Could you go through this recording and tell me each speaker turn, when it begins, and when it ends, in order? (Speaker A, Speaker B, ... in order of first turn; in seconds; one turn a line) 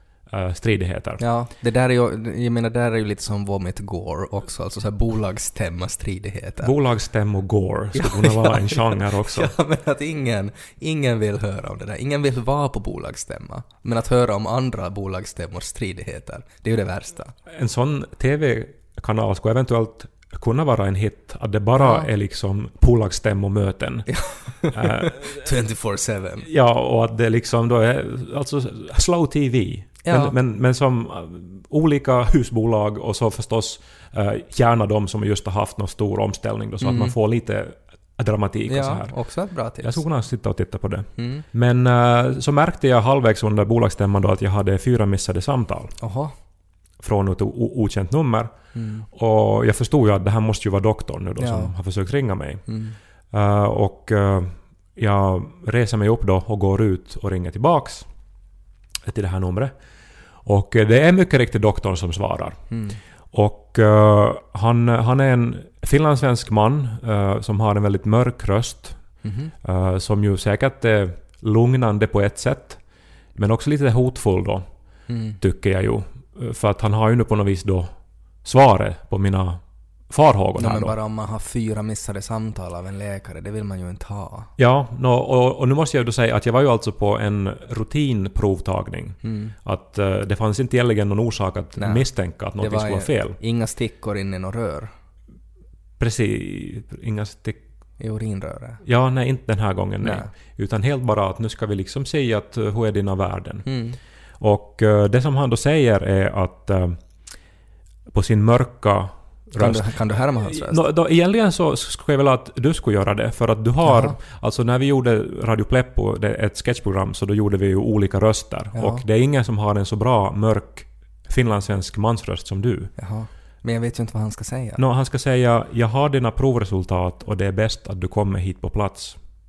Speaker A: 0.3-1.2
Speaker B: 1.2-6.7
Speaker A: 6.6-9.5
Speaker B: 7.9-17.3
Speaker A: 17.5-24.2
Speaker B: 21.8-22.1
Speaker B: 24.1-26.5
Speaker A: 24.7-25.5
Speaker A: 26.4-39.1
Speaker B: 30.0-30.3
Speaker B: 36.8-37.1
Speaker B: 38.7-40.0
Speaker A: 39.8-45.9
Speaker B: 41.2-41.4
Speaker B: 46.0-46.3
Speaker A: 47.0-48.5
Speaker B: 48.7-49.1
Speaker A: 49.1-52.6
Speaker B: 51.4-51.7
Speaker B: 52.7-53.0
Speaker A: 53.3-58.1
Speaker A: 59.0-59.7
Speaker A: 60.4-62.7
Speaker B: 62.7-63.0
Speaker A: 63.3-69.1
Speaker B: 69.2-69.5
Speaker A: 69.6-72.8
Speaker A: 73.3-74.7
Speaker B: 75.1-75.4
Speaker A: 75.4-81.0
Speaker B: 80.6-84.5
Speaker A: 84.6-93.4
Speaker B: 89.2-89.5
Speaker B: 91.8-94.9
Speaker A: 96.0-97.6
Speaker B: 98.0-98.8
Speaker A: 98.8-103.7
Speaker B: 100.0-100.3
Speaker B: 103.6-104.0
Speaker A: 104.4-107.0
Speaker A: 108.1-122.9
Speaker B: 109.6-110.8
Speaker B: 113.8-114.2
Speaker B: 118.7-119.0
Speaker B: 123.0-124.8
Speaker A: 124.8-129.2